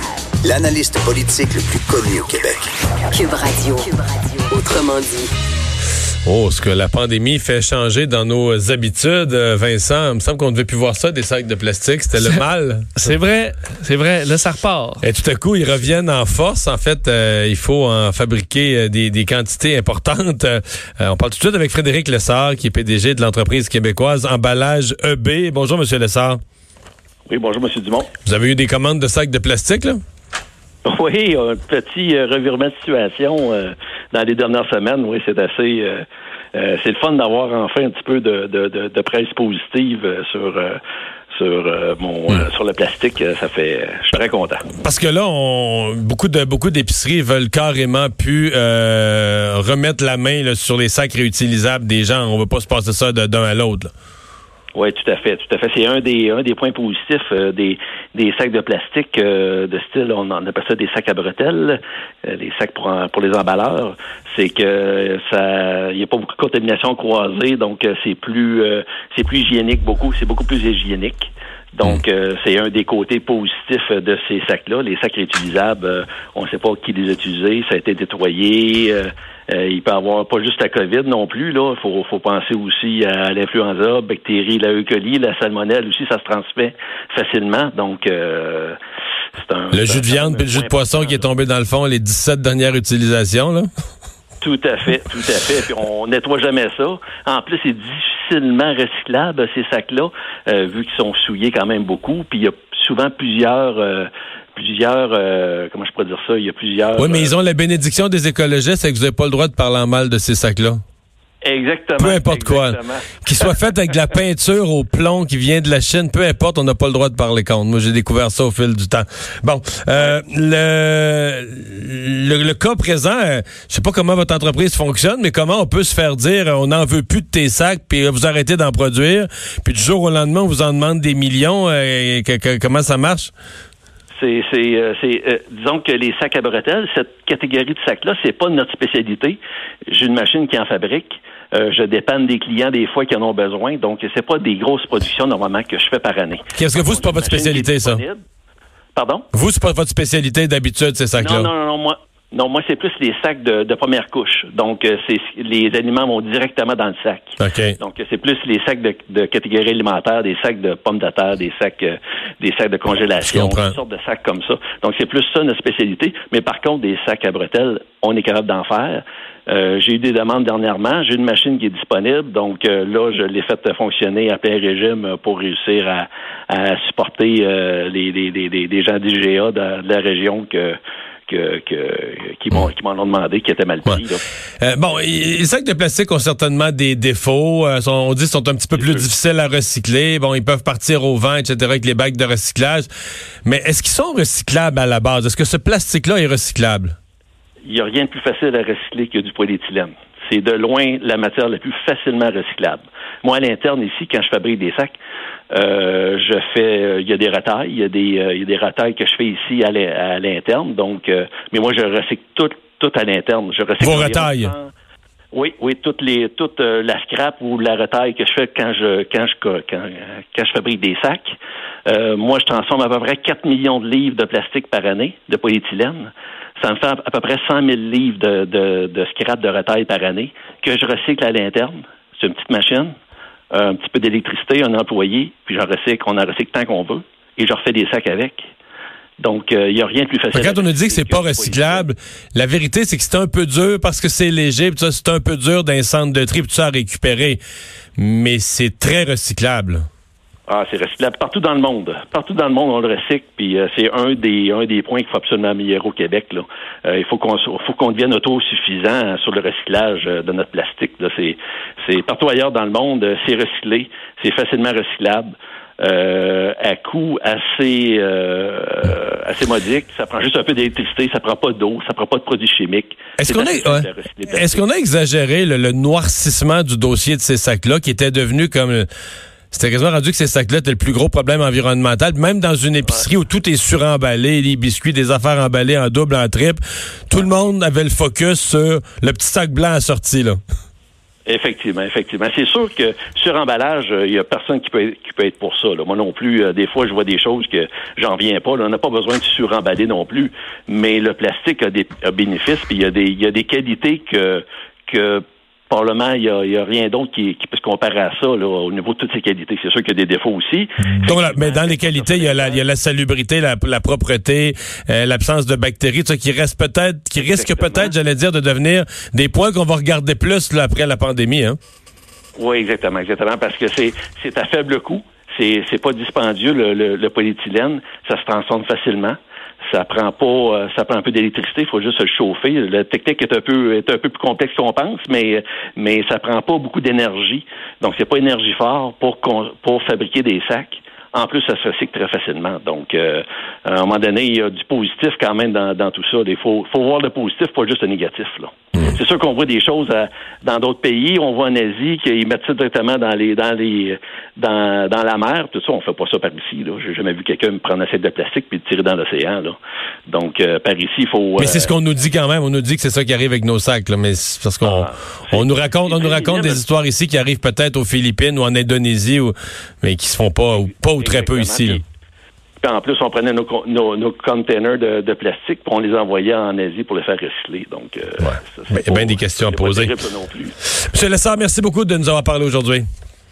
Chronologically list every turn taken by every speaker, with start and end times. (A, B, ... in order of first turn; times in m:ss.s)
0:00.4-0:02.7 A
0:03.1-0:05.3 B
0:06.2-0:12.9 C
0:13.0-0:15.0 D
0:15.0-0:26.4 C
0:27.3-0:28.1 E
0:28.2-0:30.0 C
0:30.8-0:40.8 E
0:41.3-0:44.6 E
0:44.8-0:53.9 C
0:54.7-1:28.8 E
1:29.4-1:31.3 E
1:29.7-1:33.7 C
1:34.4-1:47.3 E
1:47.0-1:50.8 C
1:51.4-1:53.5 E
1:52.0-2:13.3 C
2:14.1-2:28.2 E
2:26.6-2:28.0 C
2:28.9-2:29.2 E
2:29.3-2:31.5 C
2:31.2-3:04.2 E
2:37.4-2:37.8 C
2:43.2-2:43.7 C
3:04.6-3:12.9 C
3:08.8-3:09.0 E
3:13.4-3:16.9 C
3:17.6-3:25.0 E
3:25.5-3:34.7 E
3:33.8-3:34.5 C
3:35.3-3:41.4 E
3:41.9-3:52.9 E
3:53.5-3:58.5 E
3:59.2-4:01.9 E
4:00.3-4:07.4 C
4:08.0-4:09.8 C
4:10.5-4:34.6 E
4:33.2-4:38.9 C
4:39.5-4:50.4 C
4:51.3-5:12.6 E
5:11.0-5:21.6 C
5:17.2-5:17.9 E
5:22.4-5:29.2 E
5:29.7-6:01.7 E
6:01.4-6:11.8 C
6:04.6-6:06.6 E
6:10.9-6:11.8 E
6:12.6-6:20.5 E
6:18.2-6:20.0 C
6:20.9-6:22.8 C